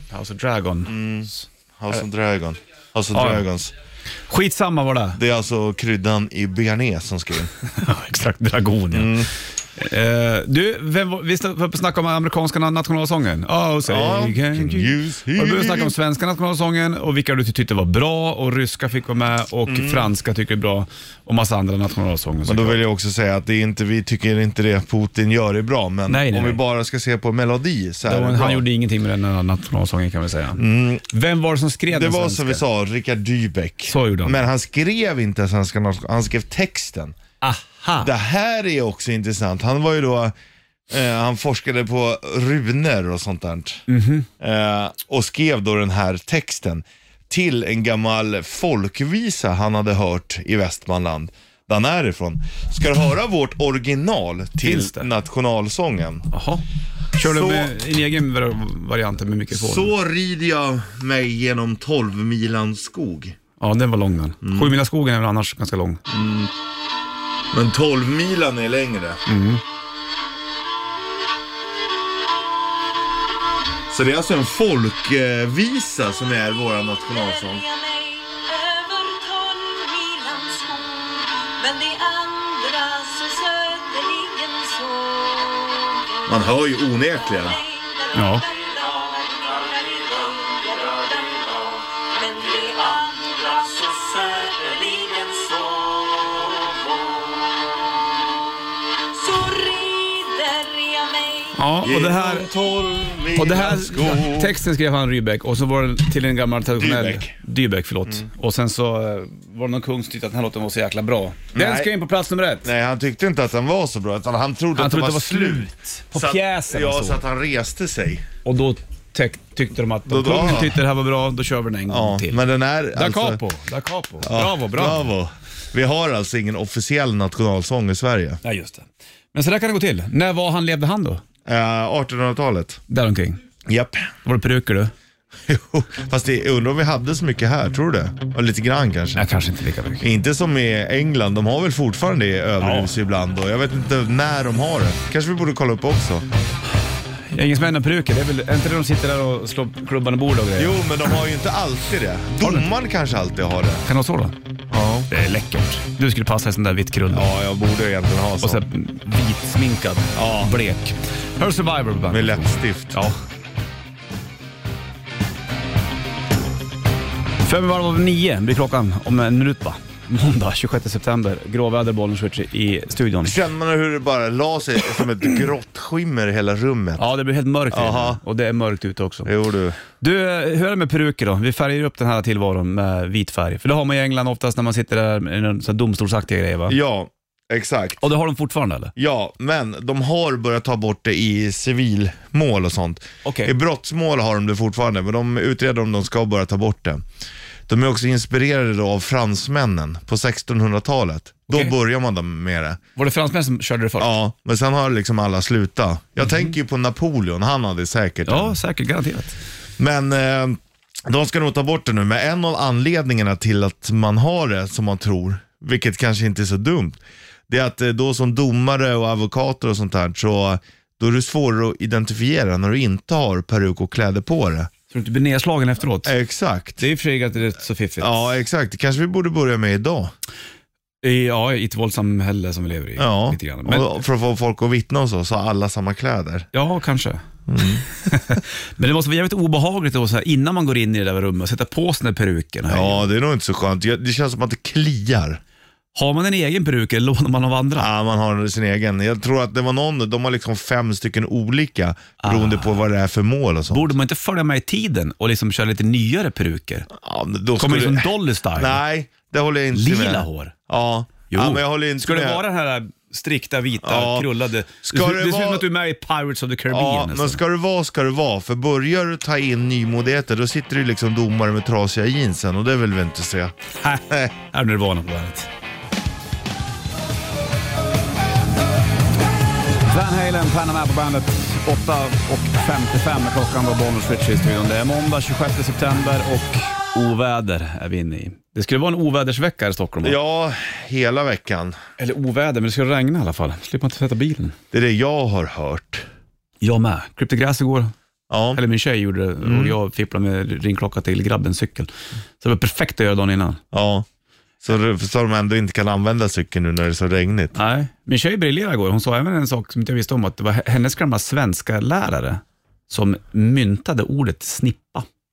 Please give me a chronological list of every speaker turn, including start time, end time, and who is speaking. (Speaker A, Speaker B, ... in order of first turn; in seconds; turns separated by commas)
Speaker A: 0.1-1.4, Speaker B: 0.9-3.7, Speaker A: 3.1-3.5, Speaker A: 4.3-5.2, Speaker B: 5.2-7.5, Speaker A: 7.7-9.3, Speaker B: 8.9-9.3, Speaker A: 9.8-22.8, Speaker B: 13.8-15.9, Speaker B: 19.7-20.1, Speaker B: 22.4-28.6, Speaker A: 26.1-26.6, Speaker A: 28.1-32.6, Speaker B: 30.6-31.1, Speaker B: 31.9-37.2, Speaker A: 33.9-34.5, Speaker A: 37.4-38.1, Speaker B: 38.0-40.3, Speaker B: 40.9-43.9, Speaker A: 43.9-44.3, Speaker B: 44.4-56.3, Speaker A: 54.6-55.1, Speaker A: 56.3-59.9, Speaker B: 57.1-57.7, Speaker B: 59.5-63.4, Speaker A: 63.6-66.0, Speaker B: 64.4-64.8, Speaker B: 66.1-66.5, Speaker B: 67.5-69.2, Speaker A: 69.3-69.6, Speaker B: 73.9-77.6, Speaker C: 77.1-86.5, Speaker B: 86.3-87.6, Speaker C: 87.2-97.8, Speaker A: 88.1-88.4, Speaker C: 99.1-101.7, Speaker A: 101.5-102.5, Speaker B: 101.8-104.6, Speaker A: 103.3-112.7, Speaker B: 106.7-107.3, Speaker B: 111.5-111.9, Speaker B: 112.6-118.3, Speaker A: 114.8-117.2, Speaker A: 118.4-125.1, Speaker B: 120.1-120.8, Speaker B: 121.9-123.4, Speaker B: 124.2-128.4, Speaker A: 128.4-131.2, Speaker B: 131.5-132.8, Speaker A: 132.9-133.4, Speaker B: 133.7-134.1, Speaker A: 134.2-134.9, Speaker B: 135.5-139.3, Speaker A: 139.2-140.1, Speaker B: 140.0-146.3, Speaker A: 142.6-142.9, Speaker A: 147.3-150.8, Speaker B: 150.6-153.8, Speaker A: 152.4-152.7, Speaker A: 153.9-154.3, Speaker B: 154.7-155.1, Speaker A: 155.1-157.3, Speaker B: 157.1-158.6, Speaker A: 158.4-163.2, Speaker B: 160.2-160.5, Speaker B: 162.1-163.0, Speaker A: 167.4-173.4, Speaker B: 173.2-177.1, Speaker A: 177.0-179.3, Speaker B: 177.7-178.2, Speaker B: 179.2-179.8, Speaker A: 180.0-186.8, Speaker B: 186.7-188.0, Speaker A: 188.0-188.9, Speaker B: 189.0-197.0, Speaker A: 193.2-193.5, Speaker B: 197.7-202.8, Speaker A: 201.5-201.7, Speaker A: 203.0-204.2, Speaker B: 204.0-208.6, Speaker A: 206.2-206.5, Speaker A: 208.3-209.4, Speaker B: 209.8-217.0, Speaker B: 217.5-224.7, Speaker A: 224.9-226.1, Speaker B: 226.0-226.8, Speaker A: 226.8-228.3, Speaker B: 228.0-230.1, Speaker A: 231.0-233.9, Speaker B: 233.0-236.5, Speaker A: 236.5-237.2, Speaker B: 237.5-237.8, Speaker A: 237.9-243.1, Speaker B: 242.7-245.4, Speaker A: 245.9-247.9, Speaker B: 247.8-253.9, Speaker A: 252.2-252.8, Speaker A: 253.7-256.9, Speaker B: 256.9-262.4, Speaker A: 257.6-258.8, Speaker A: 259.7-260.5, Speaker A: 261.3-267.4, Speaker B: 263.8-264.3, Speaker B: 264.8-265.7, Speaker B: 266.7-273.5, Speaker A: 273.8-275.5, Speaker A: 279.9-290.2, Speaker B: 290.0-291.8, Speaker A: 292.0-294.6, Speaker B: 294.7-296.1, Speaker A: 296.6-297.9, Speaker B: 298.3-298.6, Speaker A: 298.6-303.6, Speaker B: 299.4-299.8, Speaker B: 303.7-304.1, Speaker B: 304.6-307.6, Speaker A: 307.6-315.1